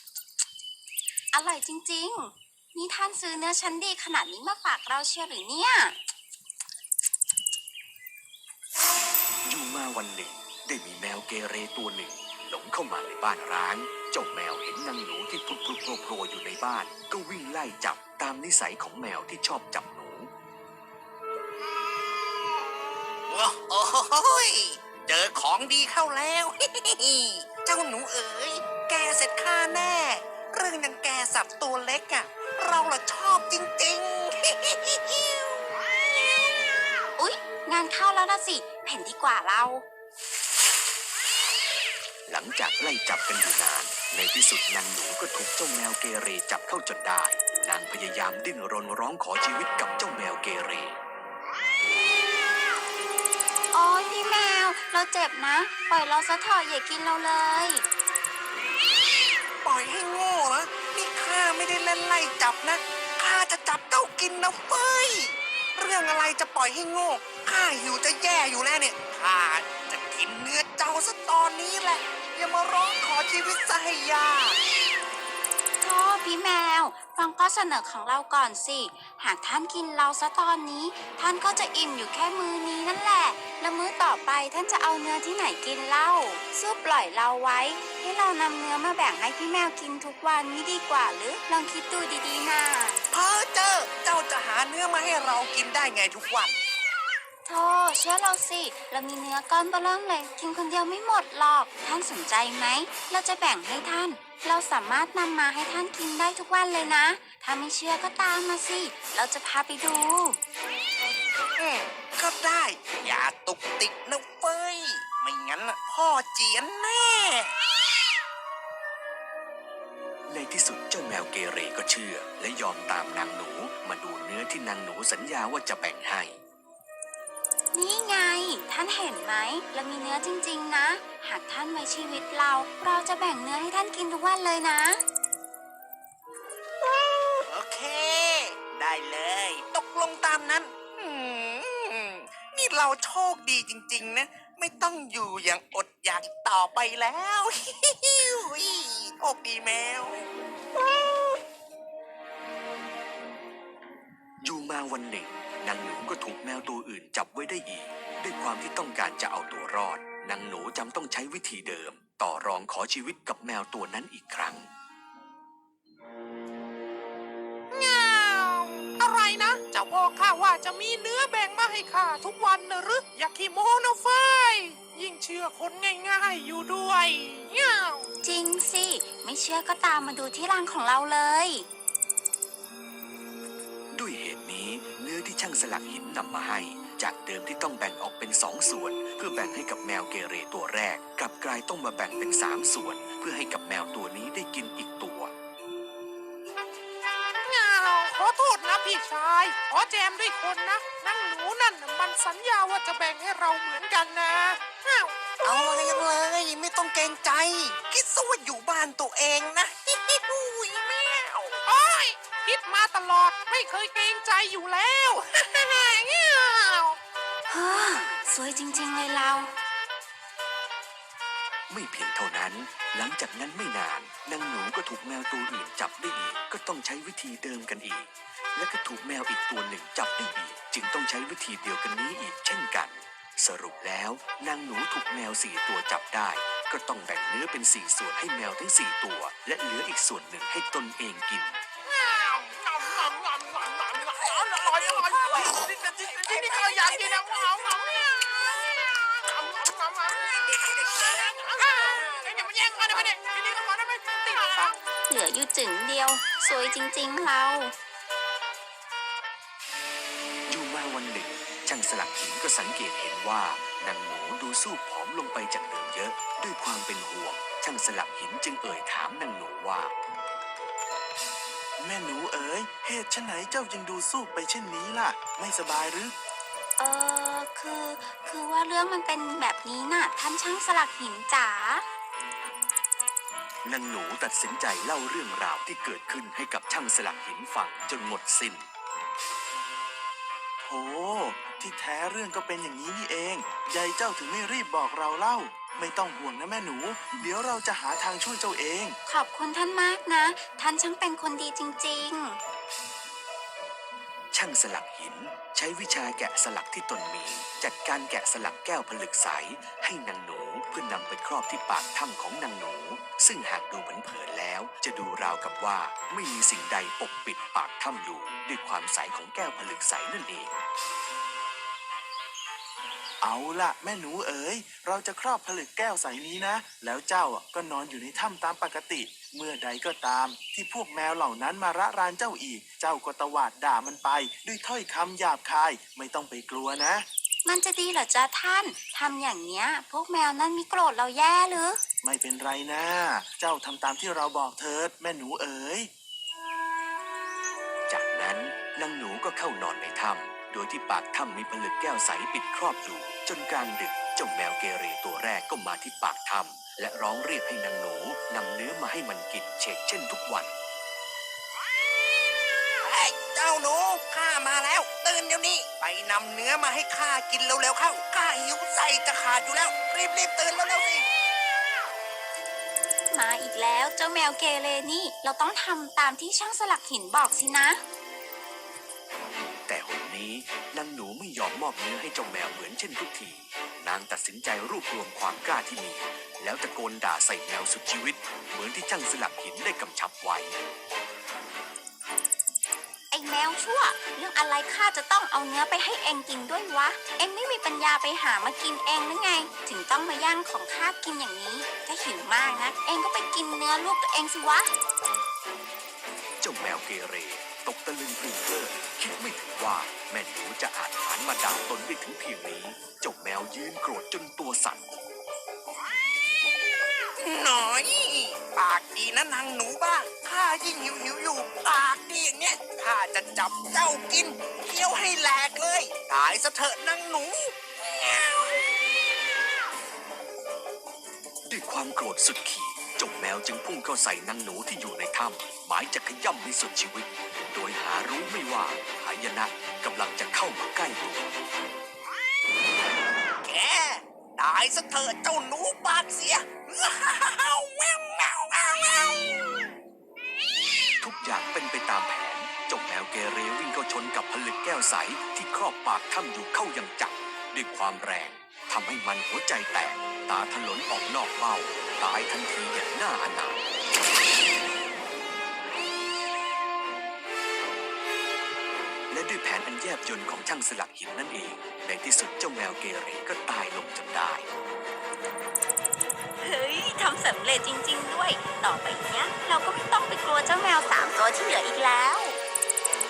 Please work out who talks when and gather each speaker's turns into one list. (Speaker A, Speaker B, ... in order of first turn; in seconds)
Speaker A: 1.3-6.0, 37.2-39.8, 53.7-57.8, 75.8-93.0, 97.5-110.4, 127.7-135.0, 178.2-181.7, 217.5-219.5, 255.1-257.7, 276.8-281.8, 299.1-302.4, 337.5-341.8, 373.1-377.8, 393.1-404.7, 476.4-482.4
Speaker B: 9.4-20.3, 42.3-51.0, 120.3-126.4, 154.4-164.7, 183.9-195.3, 221.7-241.6, 260.5-269.9, 283.6-288.7, 304.3-320.6, 347.9-360.6, 379.7-390.6, 406.4-414.9, 431.5-441.4, 451.0-463.7, 469.1-474.5
Speaker C: 23.3-35.6, 59.6-74.6, 93.1-96.6, 111.6-117.5, 136.8-151.4, 205.4-211.6, 362.8-371.0, 417.2-428.6, 443.4-449.7
Speaker D: 167.7-178.1, 197.4-205.1, 211.7-217.0, 241.9-254.8
Speaker E: 271.8-276.1, 290.6-299.0, 323.2-337.1, 342.0-345.9